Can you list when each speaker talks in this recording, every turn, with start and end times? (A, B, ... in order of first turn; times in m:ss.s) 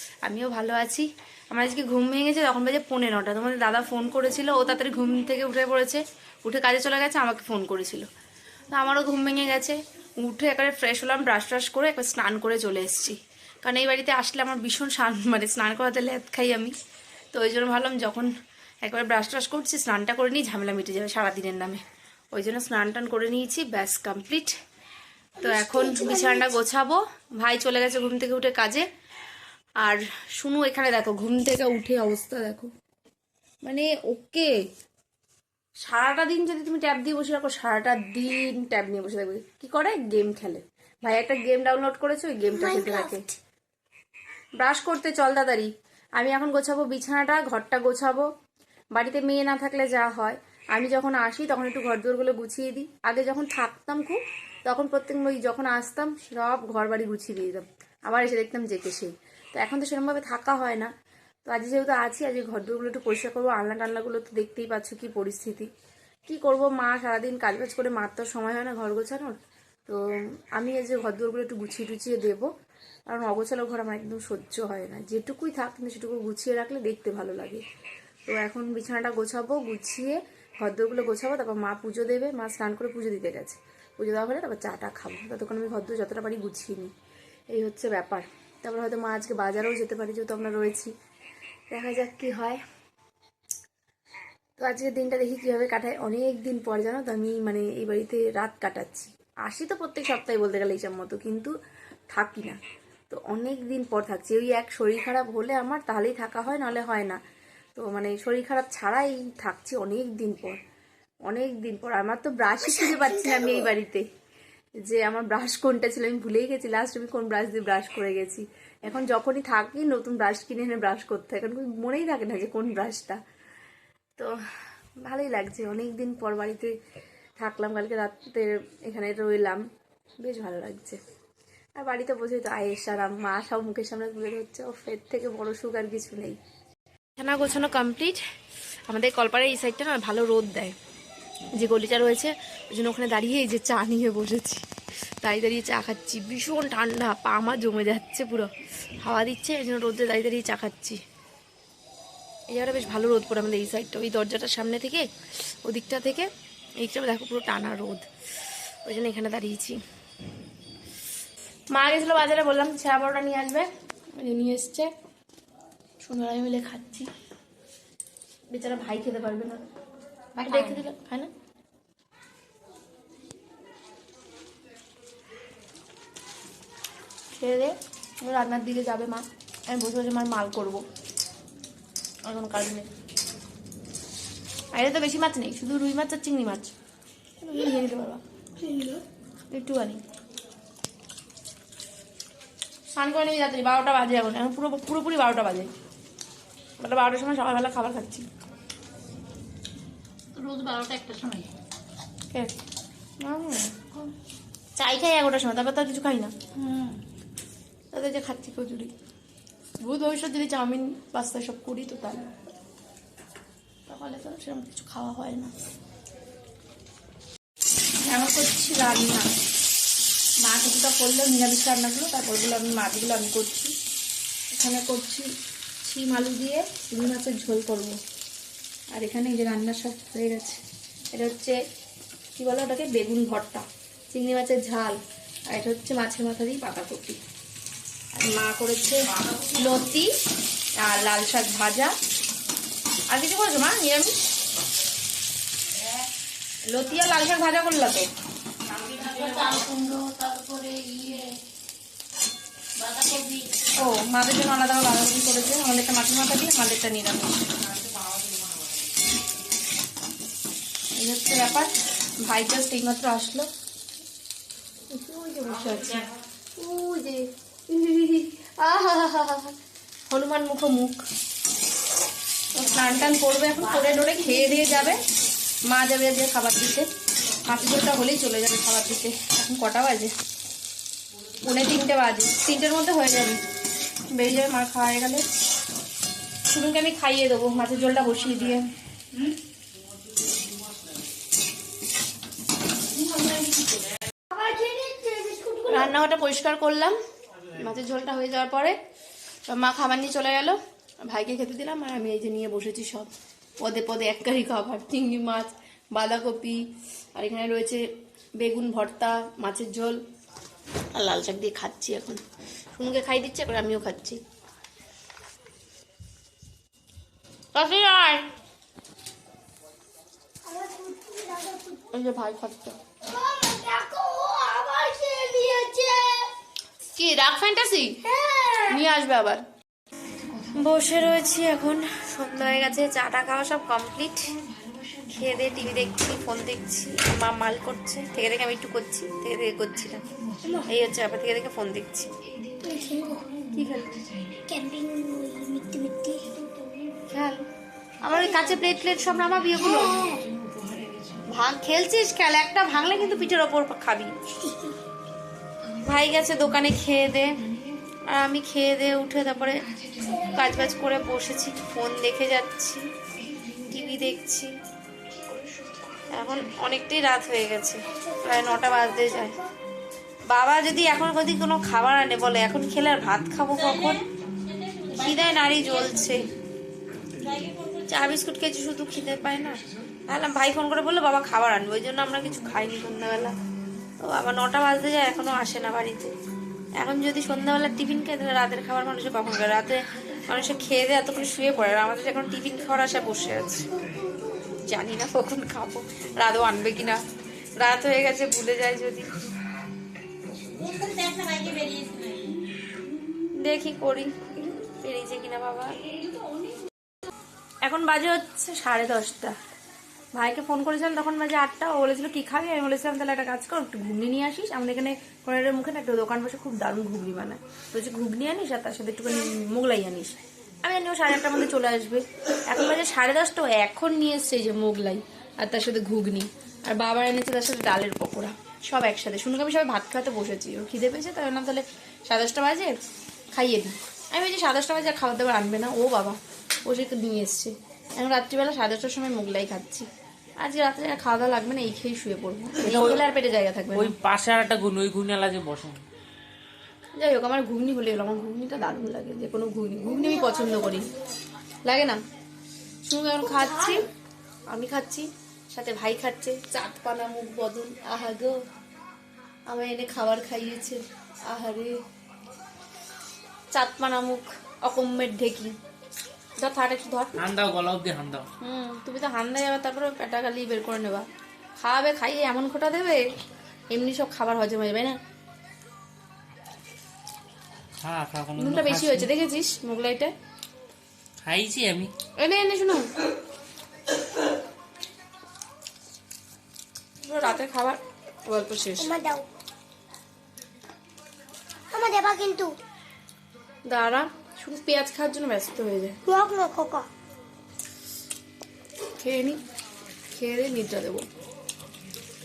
0:00.2-0:08.1 A
0:08.7-0:16.7 A
0:17.3-0:18.3 A
0:18.8-0:24.5 A
0:25.4-0:28.8 A
0:25.5-0:26.2 B
0:29.8-0:32.7 A
0:33.6-0:34.5 A
0:35.8-0:43.3 A
0:42.8-0:43.3 B
0:44.6-0:48.2 A
0:48.9-1:00.9 A
1:01.4-1:05.7 A
1:06.3-1:09.3 A
1:10.5-1:12.5 A
1:13.1-1:17.6 A
1:18.3-1:26.9 A
1:27.5-1:30.9 A
1:31.7-1:32.6 A
1:34.6-1:41.5 A
1:42.1-1:42.6 A
1:43.1-1:47.2 A
1:47.8-1:50.6 A
1:51.3-1:54.0 A
1:54.8-2:03.2 A
2:05.0-2:06.7 A
2:07.4-2:09.6 A
2:10.2-2:11.0 A
2:11.8-2:16.4 A
2:17.2-2:18.2 A
2:18.9-2:20.7 A
2:21.5-2:24.6 A
2:25.2-2:31.0 A
2:32.5-2:35.1 A
2:35.6-2:38.0 A
2:38.8-2:39.8 A
2:41.7-2:44.9 A
2:46.0-2:47.1 A
2:48.5-2:49.6 A
2:50.4-2:51.3 A
2:57.3-3:00.8 A
3:02.2-3:02.9 A
3:04.7-3:06.7 A
3:07.4-3:08.2 A
3:09.5-3:10.0 A
3:12.9-3:15.7 A
3:16.8-3:18.3 A
3:20.4-3:21.5 C
3:23.2-3:23.8 A
3:24.7-3:26.3 A
3:27.9-3:28.9 A
3:29.8-3:32.3 A
3:33.9-3:35.5 A
3:38.0-3:39.3 A
3:40.4-3:43.7 A
3:44.5-3:45.3 A
3:45.8-3:48.0 A
3:48.9-3:50.6 A
3:51.1-3:51.6 A
3:52.4-3:55.0 A
3:55.5-3:57.2 A
3:58.1-4:00.1 A
4:00.8-4:01.9 A
4:03.1-4:04.1 A
4:06.7-4:08.1 A
4:08.8-4:11.3 C
4:12.8-4:13.4 C
4:13.8-4:17.4 A
4:17.9-4:18.2 D
4:20.9-4:23.5 A
4:24.9-4:29.5 A
4:30.1-4:31.0 A
4:32.5-4:35.0 A
4:35.7-4:40.1 A
4:41.4-4:43.4 A
4:44.1-4:45.2 A
4:46.5-4:48.7 A
4:54.3-4:55.9 B
4:55.7-4:57.0 A
4:57.5-4:58.8 A
4:59.5-5:03.1 A
5:03.6-5:06.6 A
5:07.1-5:07.8 A
5:08.4-5:10.0 A
5:10.9-5:12.2 A
5:12.7-5:14.2 A
5:17.5-5:18.2 A
5:20.5-5:21.8 B
5:21.9-5:22.8 A
5:23.0-5:26.3 B
5:27.0-5:28.0 A
5:28.1-5:28.8 B
5:28.7-5:29.4 A
5:30.5-5:34.3 A
5:35.0-5:40.0 A
5:40.4-5:40.6 B
5:40.6-5:42.1 A
5:42.5-5:43.3 B
5:43.5-5:44.0 A
5:44.3-5:46.9 B
5:47.1-5:47.4 A
5:48.0-5:50.0 A
5:48.2-5:48.5 B
5:49.8-5:50.8 B
5:51.2-5:54.1 A
5:55.8-5:57.4 A
5:58.1-6:02.9 A
6:03.6-6:04.5 A
6:06.1-6:09.4 A
6:08.0-6:09.4 B
6:10.3-6:14.0 A
6:13.5-6:16.2 C
6:14.9-6:16.3 A
6:17.2-6:18.1 C
6:17.9-6:23.4 A
6:24.0-6:26.1 A
6:26.8-6:33.7 A
6:34.4-6:37.0 A
6:37.6-6:39.1 A
6:40.6-6:42.4 C
6:43.3-6:45.8 A
6:47.6-6:49.3 A
6:50.1-7:12.8 A
7:13.3-7:19.9 A
7:20.4-7:23.9 A
7:22.6-7:23.0 D
7:23.7-7:25.8 D
7:27.0-7:30.9 A
7:31.6-7:32.0 A
7:32.8-7:33.8 A
7:34.5-7:38.3 A
7:39.5-7:41.7 A
7:43.5-7:45.5 A
7:46.4-7:47.1 A
7:47.2-7:48.3 D
7:48.4-7:51.0 A
7:51.6-7:53.0 A
7:53.7-7:55.0 A
7:57.8-7:59.1 D
7:58.4-8:00.1 A
8:01.2-8:01.9 D
8:02.2-8:02.8 A
8:07.0-8:08.9 A
8:08.8-8:09.2 B
8:11.7-8:12.5 B
8:13.7-8:16.0 A
8:16.1-8:16.9 B
8:19.0-8:19.4 A
8:20.1-8:21.0 A